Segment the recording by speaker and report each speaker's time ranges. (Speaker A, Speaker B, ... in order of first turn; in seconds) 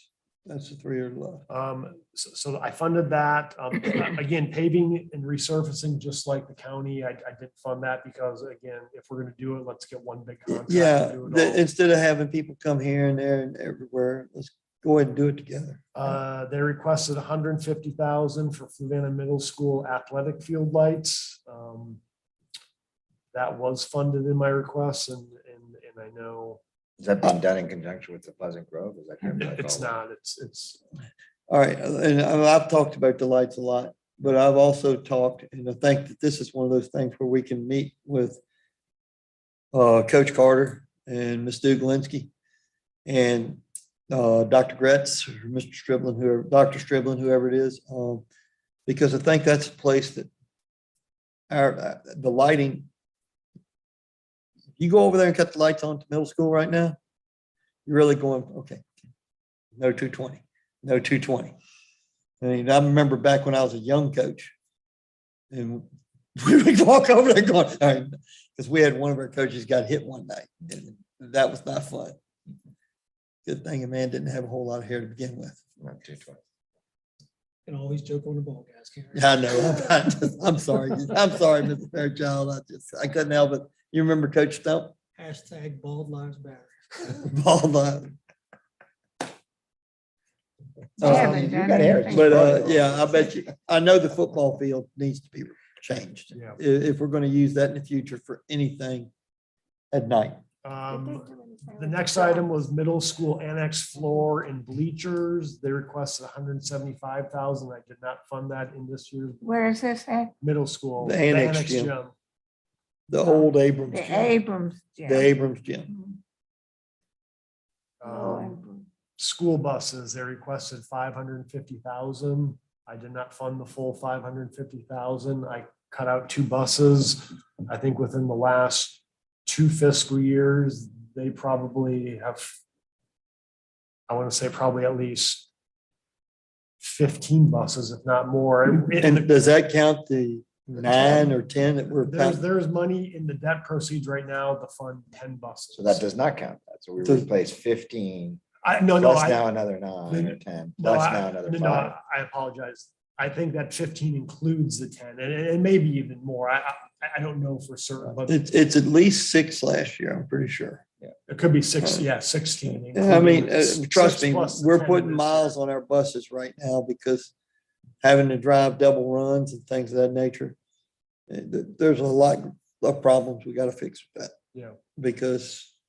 Speaker A: 0.5-1.4, 10.5-16.2, 31.5-38.4, 39.7-42.3, 43.1-48.2, 48.9-50.3, 51.5-52.9, 54.8-57.0, 57.9-58.8, 59.8-61.6, 62.4-64.5, 65.5-65.8, 66.4-72.2, 73.5-75.6, 79.1-85.0, 87.1-88.1, 91.0-91.5, 92.1-99.1, 99.9-100.4, 111.0-111.9, 113.1-114.4, 115.0-115.9, 138.9-142.4, 147.0-147.3, 158.3-160.8, 162.7-167.3, 168.0-170.6, 171.3-174.4, 175.0-175.7
Speaker B: 1.5-11.7, 15.9-22.0, 23.3-26.6, 29.4-30.8, 91.0-91.7, 96.3-96.6, 100.6-109.4, 110.4-112.1, 118.0-118.6, 119.2-132.6, 134.1-135.5, 136.8-139.3, 142.0-146.0, 148.6-149.4, 150.1-158.4, 161.3-165.5
Speaker C: 27.0-29.9, 75.8-76.4, 91.0-93.0, 145.7-148.4, 149.0-151.9
Speaker D: 77.7-79.2, 85.2-86.9
Speaker E: 91.0-92.7, 100.9-102.6, 109.4-110.3, 113.2-115.3, 115.9-116.2, 118.0-118.9